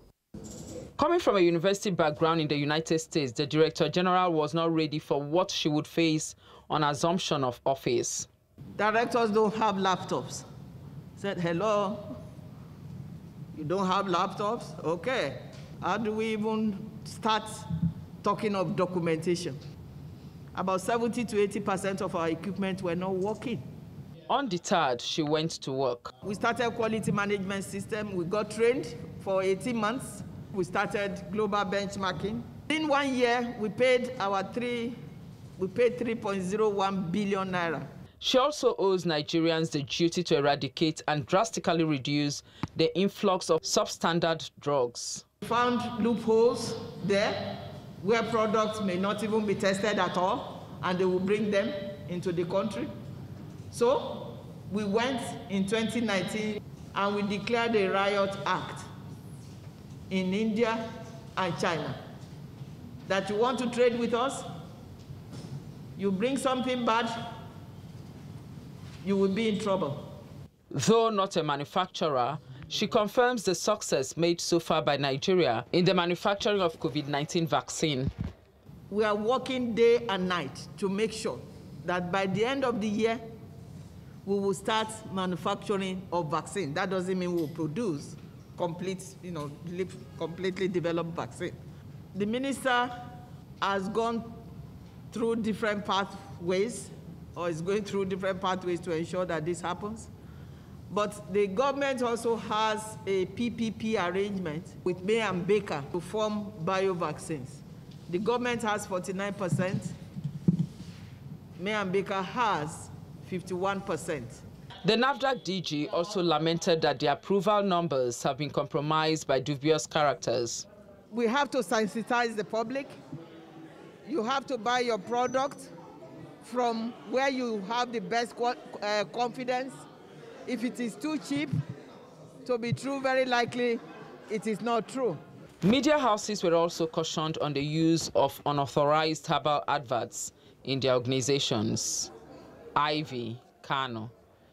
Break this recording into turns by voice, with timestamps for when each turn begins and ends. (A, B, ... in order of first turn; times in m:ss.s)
0:01.0-0:08.3 A
0:08.8-0:10.4 B
0:11.2-0:12.2 B
0:13.5-0:17.7 B
0:18.2-0:19.6 B
0:20.5-0:23.6 B
0:24.3-0:26.1 A
0:26.2-0:35.0 B
0:35.6-0:37.9 B
0:38.2-0:45.2 A
0:45.4-0:52.9 B
0:53.7-0:58.9 B
1:00.1-1:00.8 B
1:01.3-1:02.0 B
1:03.0-1:04.4 B
1:06.0-1:07.1 B
1:09.0-1:10.1 B
1:10.7-1:18.1 A
1:18.9-1:23.2 B
1:24.2-1:31.6 B
1:32.1-1:32.9 B
1:33.6-1:34.3 B
1:35.1-1:40.1 B
1:40.9-1:49.9 B
1:51.6-1:54.4 B
1:54.8-2:00.6 A
2:01.1-2:02.9 B
2:04.0-2:05.7 B
2:06.4-2:09.8 B
2:10.4-2:11.6 B
2:12.4-2:15.2 B
2:15.6-2:22.1 A
2:22.7-2:24.1 A